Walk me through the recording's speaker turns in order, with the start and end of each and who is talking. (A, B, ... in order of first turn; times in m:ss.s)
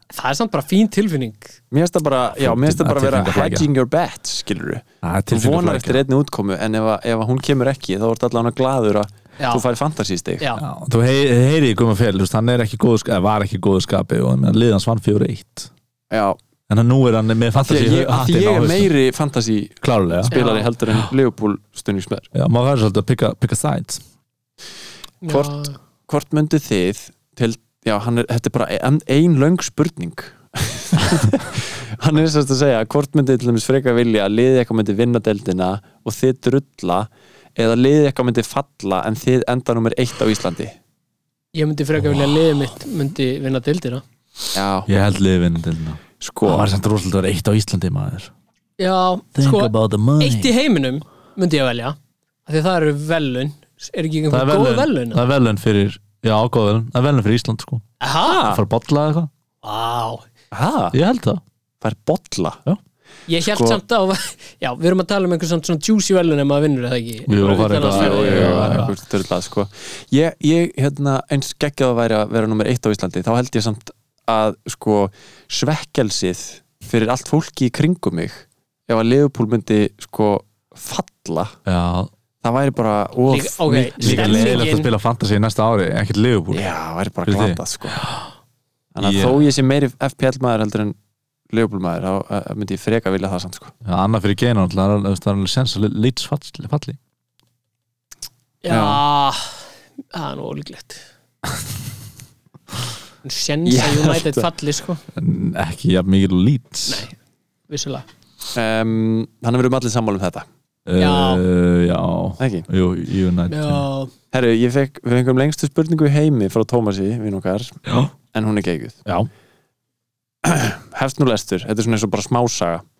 0:00.1-0:01.5 A
0:01.7-0:10.5 B
0:02.4-0:03.7 C
0:05.0-0:06.0 C
0:10.6-0:15.7 C
0:16.1-0:16.4 B
0:16.7-0:18.9 C
0:17.5-0:22.3 B
0:19.8-0:20.4 C
0:20.3-0:20.7 A
0:22.3-0:24.0 C
0:25.2-0:25.8 A
0:25.3-0:40.7 B
0:41.6-0:44.0 A
0:44.5-0:44.9 B
0:44.9-0:48.3 C
0:46.2-0:46.7 B
0:48.8-0:55.2 A
0:49.4-0:50.5 C
0:54.3-0:57.8 C
0:58.0-0:58.4 A
0:58.3-0:58.6 B
0:58.4-0:59.3 C
0:59.6-1:00.2 A
1:00.5-1:01.0 B
1:00.9-1:01.4 C
1:01.8-1:02.6 B
1:03.3-1:09.0 A
1:03.4-1:03.8 B
1:07.3-1:08.9 C
1:07.6-1:21.6 B
1:21.7-1:22.1 C
1:22.4-1:24.7 B
1:23.3-1:24.9 A
1:24.0-1:26.7 C
1:26.5-1:28.0 B
1:27.3-1:28.2 C
1:29.0-1:31.0 B
1:29.0-1:29.4 C
1:31.5-1:33.7 B
1:33.8-1:37.0 C
1:38.6-1:39.6 A
1:38.7-1:39.0 B
1:40.1-1:41.0 A
1:43.2-1:45.0 A
1:43.7-1:44.5 B
1:45.1-1:47.1 C
1:46.9-1:47.2 A
1:47.7-1:48.0 A
1:48.5-1:50.5 B
1:50.9-1:53.8 C
1:51.0-1:51.4 A
1:52.4-1:52.7 B
1:53.5-1:54.1 A
1:54.3-1:59.0 B
2:00.4-2:02.8 B